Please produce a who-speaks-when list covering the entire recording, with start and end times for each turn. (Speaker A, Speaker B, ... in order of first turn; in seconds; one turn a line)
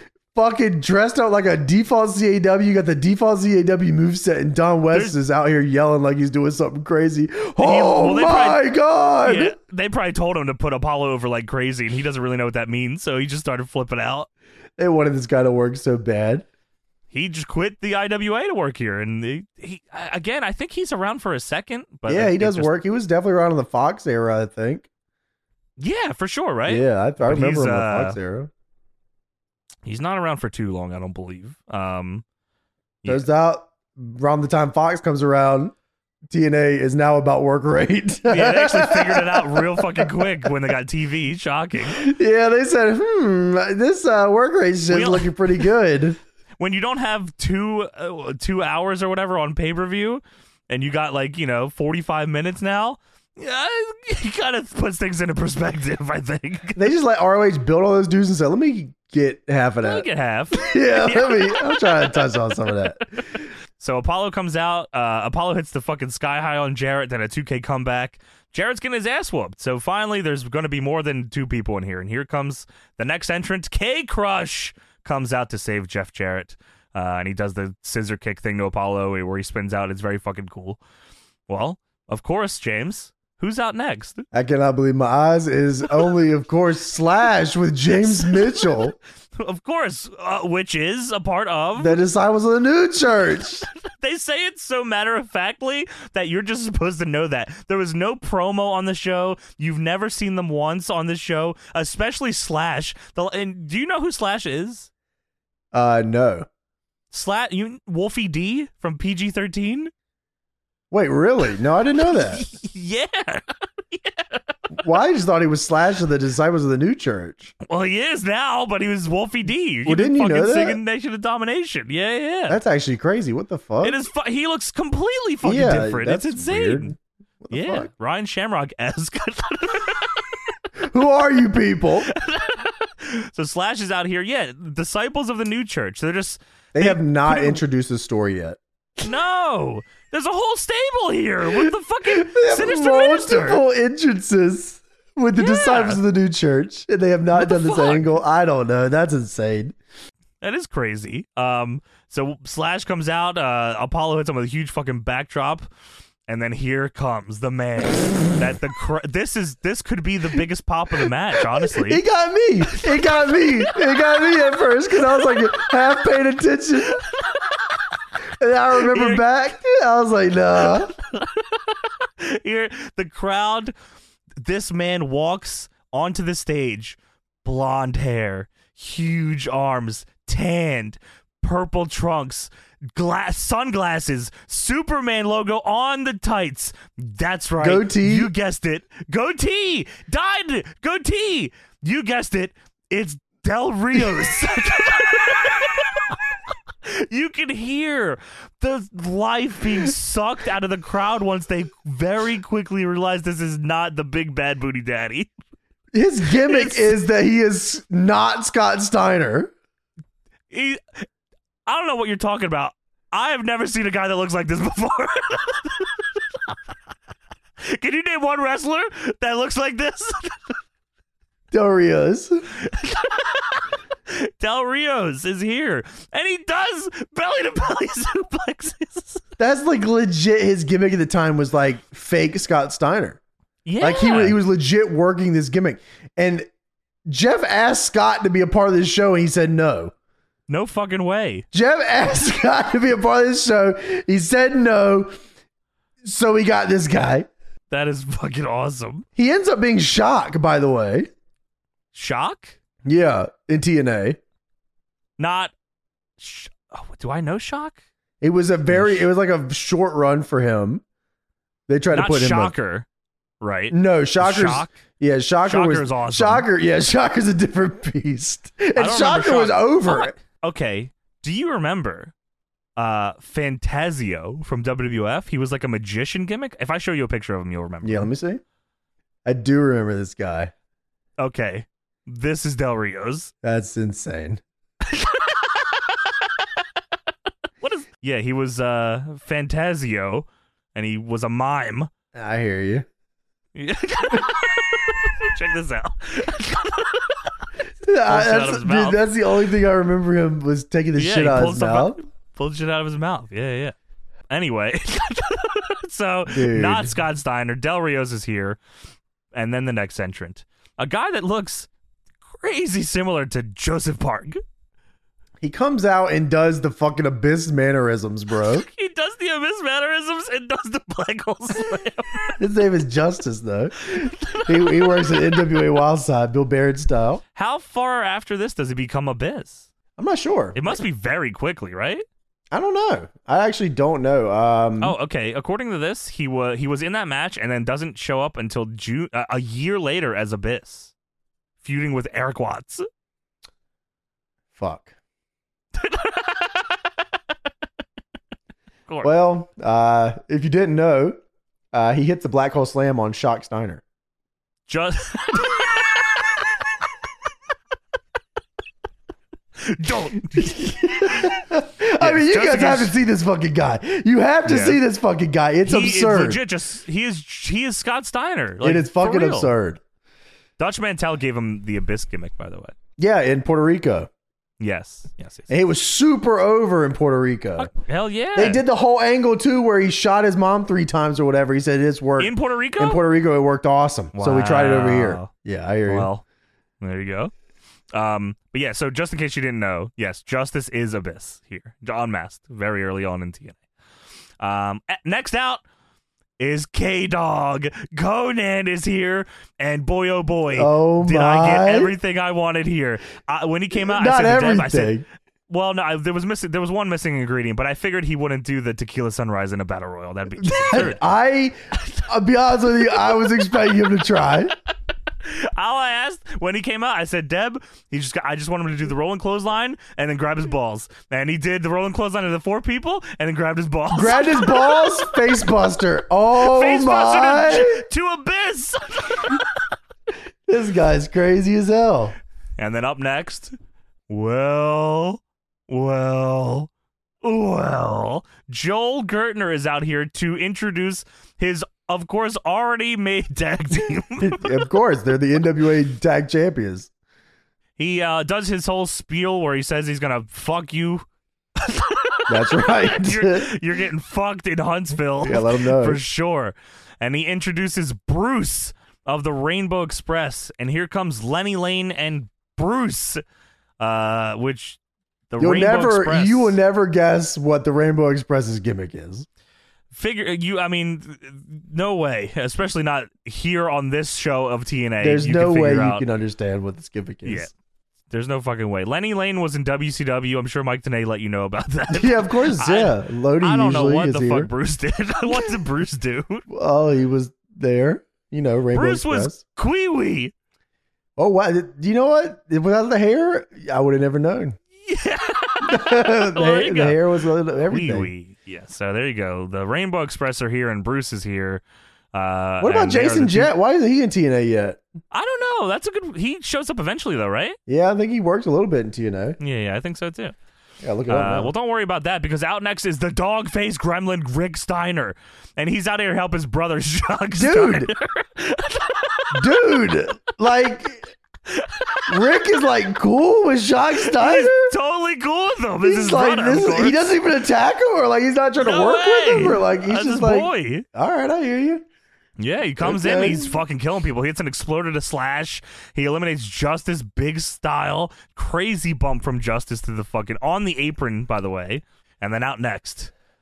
Speaker A: 0.3-9.5
Speaker B: 7.6-8.6
Speaker B: 9.2-14.3
Speaker A: 14.8-16.4
Speaker B: 17.1-22.7
Speaker A: 22.1-24.9
Speaker B: 25.8-28.2
Speaker A: 26.7-28.5
Speaker B: 29.8-32.2
Speaker A: 33.0-35.7
Speaker A: 36.3-40.5
Speaker B: 38.3-42.0
Speaker A: 41.9-46.2
Speaker B: 44.9-45.7
Speaker B: 46.6-56.8
Speaker A: 56.8-63.4
Speaker B: 59.8-62.4
Speaker B: 63.8-80.8
Speaker B: 81.5-84.2
Speaker A: 84.3-89.0
Speaker B: 88.0-88.8
Speaker B: 89.3-92.0
Speaker A: 91.8-93.7
Speaker B: 93.6-104.9
Speaker A: 105.7-106.5
Speaker B: 107.1-109.9
Speaker A: 110.9-112.4
Speaker B: 112.0-114.5
Speaker A: 114.7-117.5
Speaker B: 117.6-122.6
Speaker A: 119.8-120.8
Speaker A: 122.5-124.0
Speaker B: 123.8-126.9
Speaker A: 125.4-127.9
Speaker B: 127.5-130.6
Speaker A: 130.8-132.1
Speaker B: 132.0-137.6
Speaker A: 136.7-138.6
Speaker B: 139.0-143.6
Speaker A: 141.6-149.7
Speaker B: 145.3-146.0
Speaker B: 147.4-148.0
Speaker B: 150.4-155.7
Speaker B: 156.3-162.0
Speaker A: 161.5-167.0
Speaker B: 162.7-165.7
Speaker B: 166.9-167.9
Speaker A: 168.4-170.9
Speaker B: 168.8-169.2
Speaker B: 170.6-173.7
Speaker B: 174.4-205.3
Speaker A: 187.6-188.3
Speaker A: 205.9-209.5
Speaker B: 206.3-206.9
Speaker B: 210.5-211.0
Speaker B: 211.7-216.6
Speaker B: 217.6-220.6
Speaker A: 221.5-222.4
Speaker B: 222.5-229.2
Speaker A: 229.4-233.2
Speaker B: 233.6-234.4
Speaker A: 233.8-236.5
Speaker A: 237.1-239.9
Speaker B: 240.5-241.4
Speaker A: 241.5-245.1
Speaker A: 246.0-247.3
Speaker B: 247.7-249.1
Speaker A: 249.2-251.1
Speaker B: 251.9-252.6
Speaker A: 252.8-254.2
Speaker B: 255.2-255.5
Speaker B: 256.2-257.8
Speaker A: 258.2-260.8
Speaker B: 258.7-259.1
Speaker A: 261.7-262.5
Speaker B: 261.9-262.9
Speaker B: 263.4-264.8
Speaker A: 263.7-270.1
Speaker B: 265.4-266.4
Speaker B: 268.8-272.1
Speaker B: 272.8-278.1
Speaker A: 277.8-278.4
Speaker A: 279.2-280.5
Speaker B: 281.2-283.3
Speaker A: 283.4-284.4
Speaker B: 284.8-286.6
Speaker B: 287.6-291.9
Speaker A: 292.1-292.8
Speaker B: 293.5-297.3
Speaker A: 297.8-302.0
Speaker B: 298.1-299.0
Speaker B: 300.9-303.7
Speaker B: 304.3-308.6
Speaker A: 306.3-306.9
Speaker B: 309.3-311.7
Speaker B: 312.2-314.4
Speaker A: 315.4-318.6
Speaker B: 318.4-322.4
Speaker A: 322.4-327.2
Speaker B: 323.9-325.6
Speaker B: 327.3-329.6
Speaker A: 330.0-330.7
Speaker B: 330.5-332.0
Speaker A: 332.5-334.9
Speaker B: 334.8-340.9
Speaker B: 341.6-342.8
Speaker A: 344.5-344.9
Speaker B: 345.7-346.9
Speaker A: 349.0-351.2
Speaker A: 351.7-353.8
Speaker B: 354.7-356.3
Speaker B: 359.6-361.4
Speaker A: 360.4-366.4
Speaker B: 362.0-362.9
Speaker B: 364.4-364.8
Speaker B: 365.6-369.5
Speaker A: 368.6-369.8
Speaker B: 370.6-372.7
Speaker A: 373.0-374.1
Speaker B: 374.6-375.5
Speaker A: 375.5-377.7
Speaker B: 377.6-378.6
Speaker A: 378.3-386.1
Speaker B: 382.2-383.0
Speaker B: 384.1-385.3
Speaker B: 385.9-386.2
Speaker B: 386.8-387.3
Speaker B: 387.9-393.6
Speaker B: 394.4-395.6
Speaker B: 396.4-405.0
Speaker A: 400.5-401.9
Speaker A: 403.8-405.0
Speaker B: 405.5-411.0
Speaker A: 410.4-414.6
Speaker B: 411.8-412.0
Speaker B: 415.2-425.2
Speaker A: 423.9-427.8
Speaker B: 426.3-429.7
Speaker A: 430.5-432.1
Speaker B: 432.6-433.5
Speaker B: 434.1-436.7
Speaker B: 437.2-444.6
Speaker A: 444.2-446.9
Speaker B: 447.8-463.2
Speaker A: 452.3-453.5
Speaker A: 455.2-456.0
Speaker B: 463.8-464.8
Speaker B: 465.3-466.6
Speaker A: 465.4-469.3
Speaker B: 469.9-476.0
Speaker A: 475.0-477.5
Speaker B: 477.2-477.5
Speaker B: 478.1-486.4
Speaker A: 481.9-484.5
Speaker A: 486.5-489.4
Speaker B: 488.7-490.3
Speaker A: 491.2-494.6
Speaker B: 494.8-497.0
Speaker A: 495.6-498.1
Speaker B: 497.7-503.5
Speaker A: 502.6-504.8
Speaker B: 505.1-507.6
Speaker A: 507.7-509.4
Speaker B: 509.4-510.3
Speaker A: 510.8-511.5
Speaker B: 511.1-519.6
Speaker A: 517.3-517.9
Speaker A: 519.3-521.1
Speaker B: 521.5-522.3
Speaker A: 522.1-524.7
Speaker B: 524.0-527.1
Speaker A: 525.8-531.8
Speaker B: 528.6-530.9
Speaker B: 532.4-543.1
Speaker A: 532.8-533.5